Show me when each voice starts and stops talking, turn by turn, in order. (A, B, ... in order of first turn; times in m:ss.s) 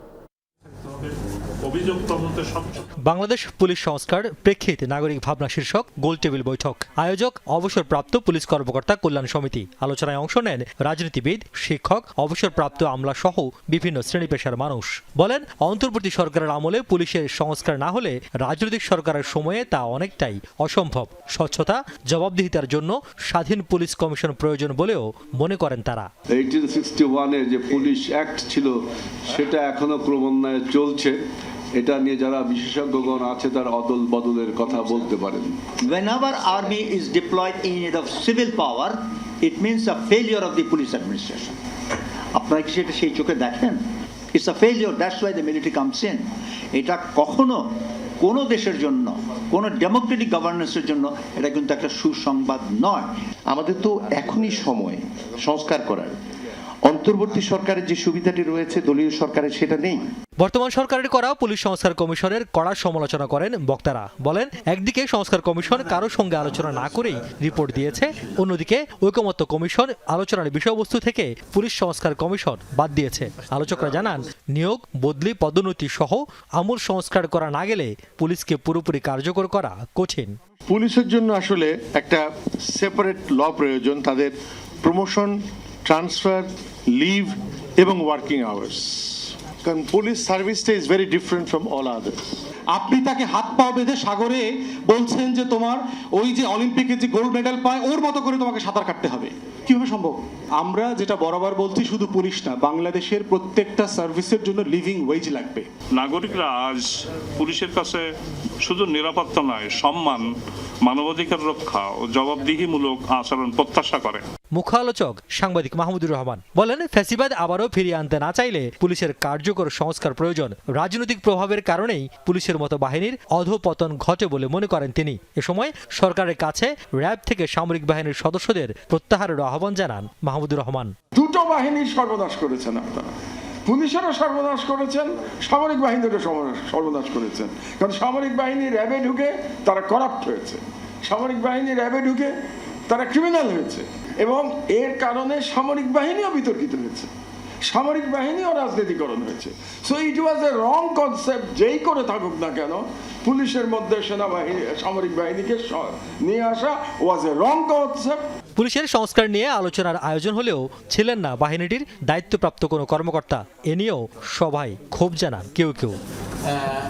0:01.6-0:02.9 A
0:03.1-0:26.1 B
0:26.3-0:28.8 C
0:29.3-0:31.2 C
0:31.8-0:35.6 C
0:35.8-0:41.6 D
0:42.3-0:43.8 D
0:44.3-0:46.2 D
0:46.8-0:47.6 D
0:48.2-0:53.1 D
0:53.5-0:56.1 E
0:56.9-1:00.1 E
1:00.4-1:20.4 B
1:20.7-1:32.4 E
1:32.8-1:45.7 F
1:46.0-1:48.0 A
1:48.6-1:50.3 A
1:50.8-1:54.2 A
1:54.6-2:10.9 B
2:11.1-2:13.1 G
2:13.7-2:22.3 G
2:22.9-2:27.1 G
2:27.6-2:38.2 G
2:38.6-2:46.0 B